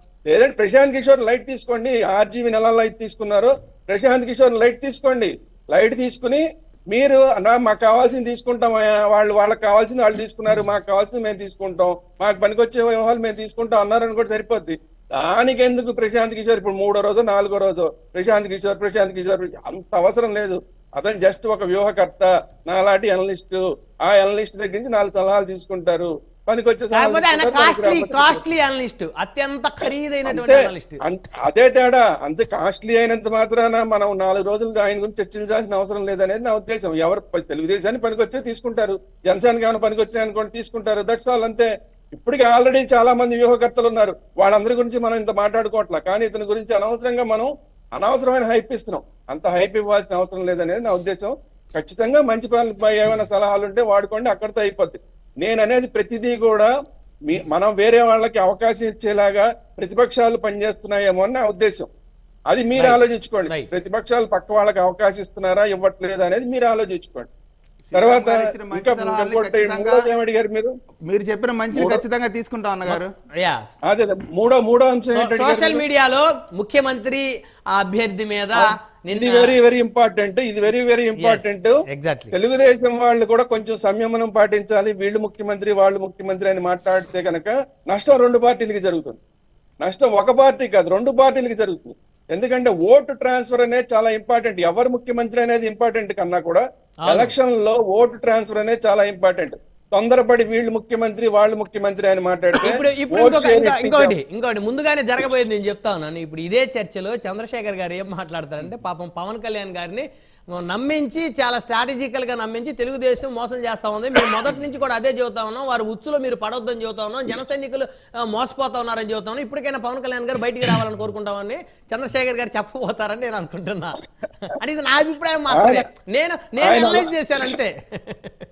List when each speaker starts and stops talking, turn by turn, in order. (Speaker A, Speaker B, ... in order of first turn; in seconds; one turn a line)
Speaker A: 0.3-28.4
Speaker B: 26.9-31.0
Speaker A: 30.2-56.7
Speaker A: 57.3-61.9
Speaker A: 62.5-67.3
Speaker B: 62.8-63.7
Speaker C: 67.9-70.0
Speaker A: 67.9-70.7
Speaker C: 71.1-73.1
Speaker A: 71.7-72.0
Speaker B: 72.8-73.7
Speaker A: 73.9-75.8
Speaker B: 75.1-79.5
Speaker A: 79.1-81.7
Speaker B: 81.2-82.3
Speaker A: 82.3-89.2
Speaker A: 89.8-104.2
Speaker B: 97.0-97.3
Speaker B: 102.6-128.3
Speaker A: 125.5-125.8
Speaker A: 126.6-127.5